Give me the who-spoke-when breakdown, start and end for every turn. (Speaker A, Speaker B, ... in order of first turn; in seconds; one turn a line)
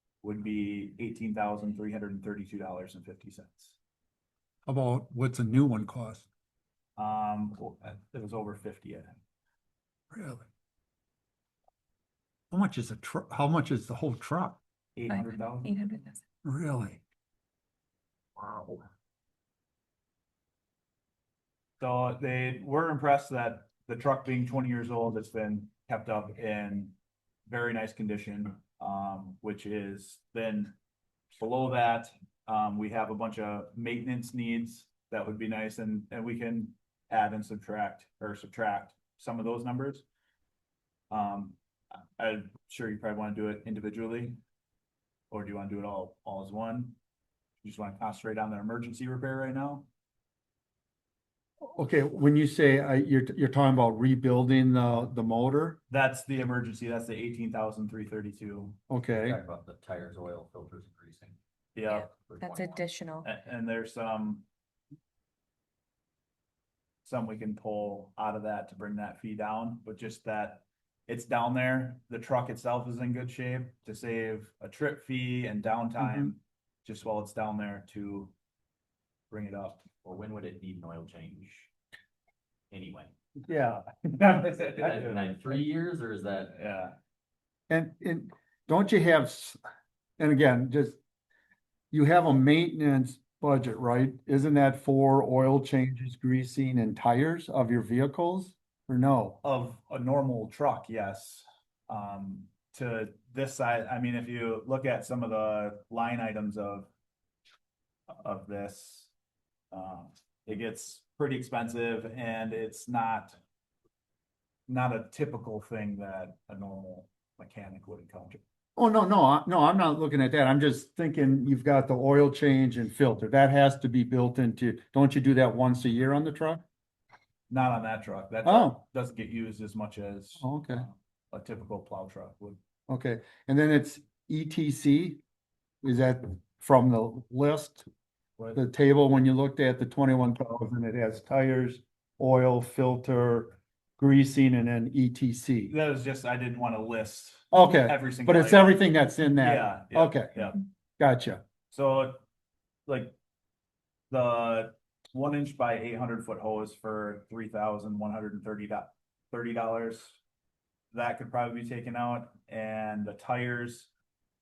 Speaker A: 0.2-3.8
Speaker B: 4.7-6.2
Speaker A: 7.0-9.1
Speaker B: 10.1-10.5
Speaker B: 12.5-14.6
Speaker A: 14.9-15.7
Speaker C: 15.1-16.2
Speaker B: 16.4-17.0
Speaker B: 18.4-18.8
Speaker A: 21.8-26.9
Speaker A: 27.4-30.7
Speaker A: 31.4-40.0
Speaker A: 41.1-41.6
Speaker A: 42.2-44.4
Speaker A: 45.3-47.0
Speaker A: 47.6-49.9
Speaker B: 51.6-55.8
Speaker A: 55.9-58.8
Speaker B: 58.9-59.4
Speaker D: 59.1-62.8
Speaker A: 61.8-62.1
Speaker C: 62.4-63.3
Speaker A: 63.2-64.4
Speaker A: 67.0-78.3
Speaker B: 76.0-76.3
Speaker A: 79.3-79.8
Speaker D: 80.0-81.7
Speaker D: 82.7-83.1
Speaker B: 83.5-84.3
Speaker A: 84.2-85.4
Speaker D: 84.5-86.6
Speaker A: 86.5-87.0
Speaker B: 87.7-89.6
Speaker B: 90.2-91.0
Speaker B: 91.9-99.4
Speaker A: 99.4-106.9
Speaker A: 108.2-109.1
Speaker A: 109.7-113.4
Speaker A: 114.7-118.4
Speaker B: 118.8-126.6
Speaker A: 127.5-132.6
Speaker B: 128.4-128.8
Speaker B: 130.4-130.9
Speaker B: 132.9-135.2
Speaker B: 135.8-137.8
Speaker B: 138.6-145.7
Speaker A: 145.7-148.8
Speaker B: 147.5-151.4
Speaker A: 149.4-150.6
Speaker A: 151.7-152.2
Speaker A: 152.9-153.2
Speaker A: 154.1-160.2
Speaker A: 160.9-163.9